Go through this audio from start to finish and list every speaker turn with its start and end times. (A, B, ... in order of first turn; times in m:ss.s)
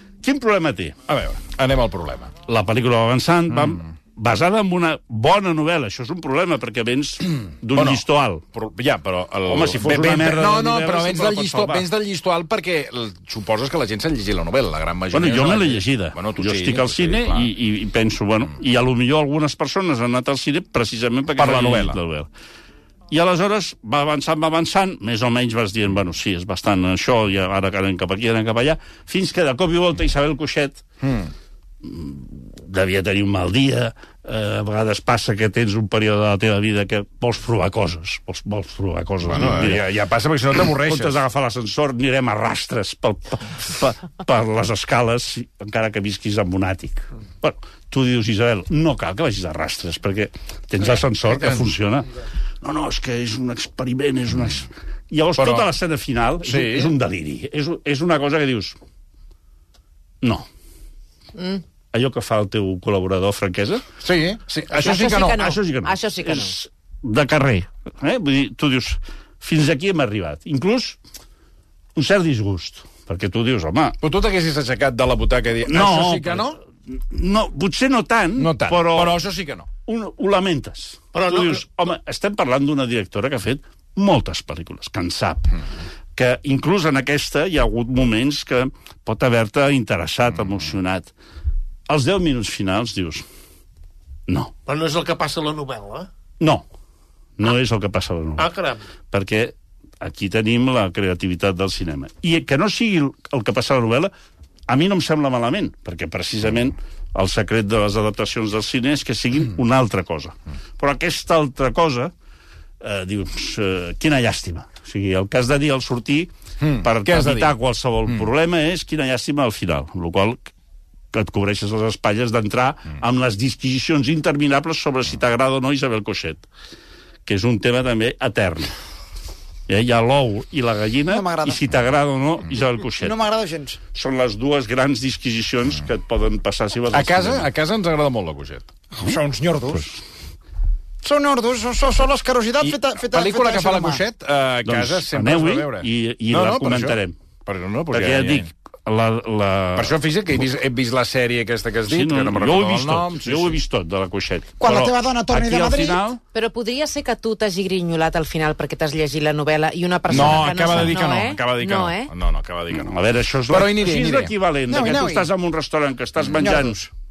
0:00.2-0:01.0 A
0:01.1-0:02.3 B
0:02.4-0:08.4 A
0:07.7-0:17.5 B
0:09.4-0:11.9 A
0:15.1-0:22.3 A
0:21.3-0:22.0 B
0:23.1-0:30.8 A
0:31.0-0:31.3 B
0:31.8-0:39.9 A
0:39.2-0:41.2 B
0:40.7-0:52.1 A
0:52.6-0:58.8 A
0:55.4-0:55.7 B
0:56.4-0:56.9 B
1:01.3-1:01.6 C
1:01.9-1:03.9 A
1:04.0-1:05.4 B
1:04.7-1:06.5 C
1:05.1-1:11.0 A
1:11.9-1:14.0 A
1:14.0-1:16.6 B
1:15.7-1:19.2 A
1:18.4-1:19.7 B
1:19.8-1:25.6 A
1:21.1-1:21.6 D
1:26.1-1:31.1 A
1:31.9-1:33.2 A
1:34.6-1:36.1 D
1:37.4-1:38.5 A
1:38.4-1:38.8 D
1:39.1-1:44.1 A
1:44.7-1:52.1 A
1:52.8-2:00.5 A
1:56.6-1:57.5 B
2:01.1-2:06.4 A
2:07.2-2:08.7 A
2:09.7-2:13.2 A
2:11.1-2:11.6 E
2:13.0-2:13.8 E
2:13.9-2:17.5 A
2:16.9-2:18.7 B
2:19.0-2:19.9 E
2:21.0-2:24.0 E
2:22.6-2:28.5 B
2:24.6-2:27.2 A
2:27.9-2:30.0 A
2:29.8-2:33.6 B
2:31.9-2:36.2 A
2:34.6-2:36.0 E
2:36.3-2:42.1 C
2:40.1-2:45.1 B
2:40.1-2:40.5 A
2:42.7-2:46.9 A
2:44.7-2:45.3 E
2:46.4-2:46.8 E